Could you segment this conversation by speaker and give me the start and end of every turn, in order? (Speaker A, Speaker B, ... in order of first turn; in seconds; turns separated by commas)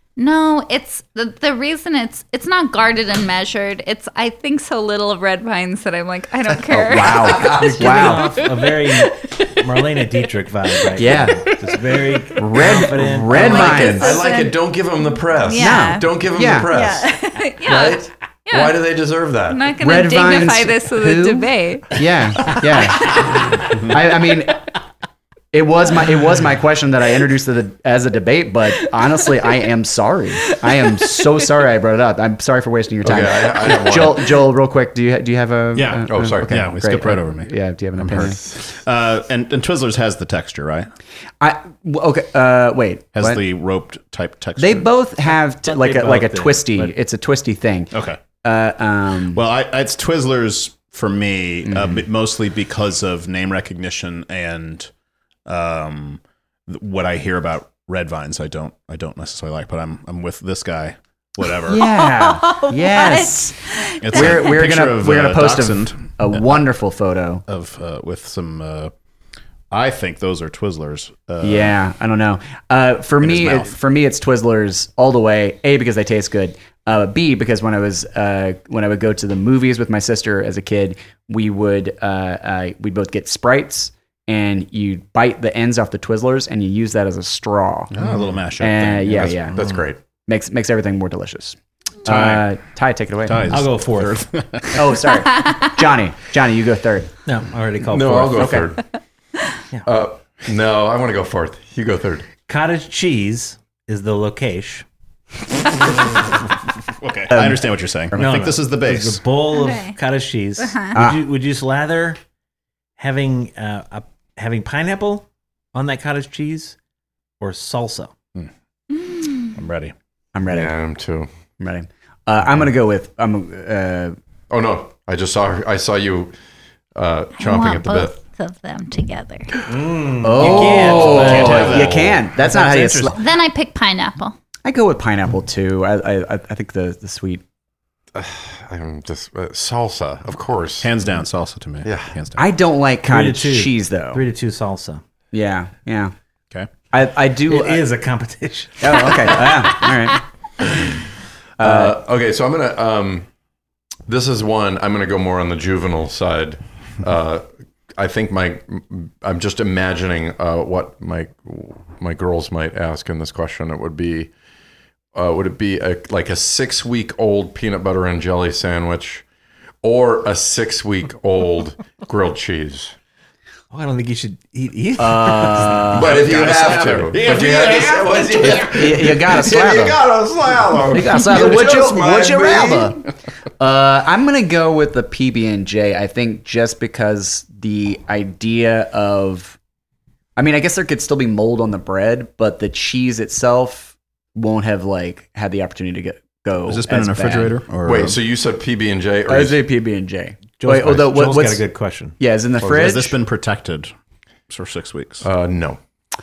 Speaker A: 0.2-9.7, Speaker B: 6.7-8.3, Speaker C: 7.0-7.5, Speaker D: 7.5-13.7, Speaker B: 11.0-11.5, Speaker A: 11.6-12.4, Speaker B: 12.3-14.2, Speaker C: 12.7-17.1, Speaker A: 13.6-14.6, Speaker A: 15.4-16.1, Speaker B: 15.6-16.7, Speaker A: 16.7-18.8, Speaker C: 17.6-19.6, Speaker A: 19.5-23.7, Speaker B: 19.8-24.7, Speaker B: 25.5-38.4, Speaker A: 30.8-31.2, Speaker C: 33.0-34.4, Speaker E: 35.7-40.9, Speaker C: 36.1-36.6, Speaker B: 41.4-43.4, Speaker E: 43.1-44.9, Speaker B: 44.6-49.4, Speaker D: 45.4-46.9, Speaker E: 47.9-48.2, Speaker E: 49.3-54.9, Speaker B: 51.6-52.0, Speaker E: 55.5-61.9, Speaker B: 61.7-63.6, Speaker A: 61.8-64.3, Speaker E: 64.0-66.5, Speaker B: 64.1-67.4, Speaker E: 67.5-68.9, Speaker E: 69.7-71.8, Speaker B: 71.4-88.0, Speaker E: 73.2-73.7, Speaker E: 87.9-89.4, Speaker B: 88.5-89.5, Speaker C: 89.2-90.0, Speaker D: 89.5-89.9, Speaker B: 90.2-93.5, Speaker E: 92.0-92.5, Speaker E: 93.2-95.0, Speaker D: 93.5-94.2, Speaker B: 94.7-97.1, Speaker D: 97.2-98.6, Speaker C: 97.9-98.9, Speaker B: 98.3-98.7, Speaker C: 99.8-102.3, Speaker D: 102.5-104.8, Speaker E: 106.9-109.2, Speaker B: 107.3-108.2, Speaker D: 108.1-112.2, Speaker A: 109.5-110.0, Speaker A: 110.7-110.9, Speaker B: 110.9-111.2, Speaker D: 113.0-116.8, Speaker D: 117.4-118.1, Speaker A: 119.2-119.5, Speaker E: 119.5-119.9, Speaker B: 120.3-120.7, Speaker C: 120.5-121.3, Speaker B: 121.6-124.2, Speaker C: 124.5-126.3, Speaker C: 126.9-128.2, Speaker A: 127.3-129.6, Speaker D: 129.6-131.9, Speaker B: 130.2-133.2, Speaker E: 130.4-133.1, Speaker C: 130.4-132.2, Speaker D: 132.8-133.1, Speaker A: 133.1-134.3, Speaker B: 134.6-137.4, Speaker C: 138.1-140.9, Speaker E: 140.8-142.4, Speaker C: 141.8-142.1, Speaker B: 142.3-144.2, Speaker D: 143.1-145.0, Speaker B: 145.3-146.1, Speaker B: 146.9-147.8, Speaker D: 147.5-149.4, Speaker B: 148.8-150.2, Speaker C: 150.6-151.0, Speaker B: 151.6-151.9, Speaker C: 151.6-153.3, Speaker C: 154.1-164.3, Speaker C: 165.1-169.2, Speaker C: 169.8-172.9, Speaker D: 173.7-176.0, Speaker B: 175.0-177.0, Speaker C: 175.9-181.8, Speaker E: 176.0-179.1, Speaker B: 178.4-180.0, Speaker B: 180.9-183.0, Speaker E: 181.1-182.9, Speaker B: 183.6-189.6, Speaker B: 190.4-197.6, Speaker E: 196.7-198.2, Speaker C: 197.8-199.6, Speaker B: 199.3-201.7, Speaker D: 200.6-202.2, Speaker B: 202.2-203.2, Speaker E: 202.6-203.9, Speaker E: 204.5-205.3, Speaker C: 205.2-205.8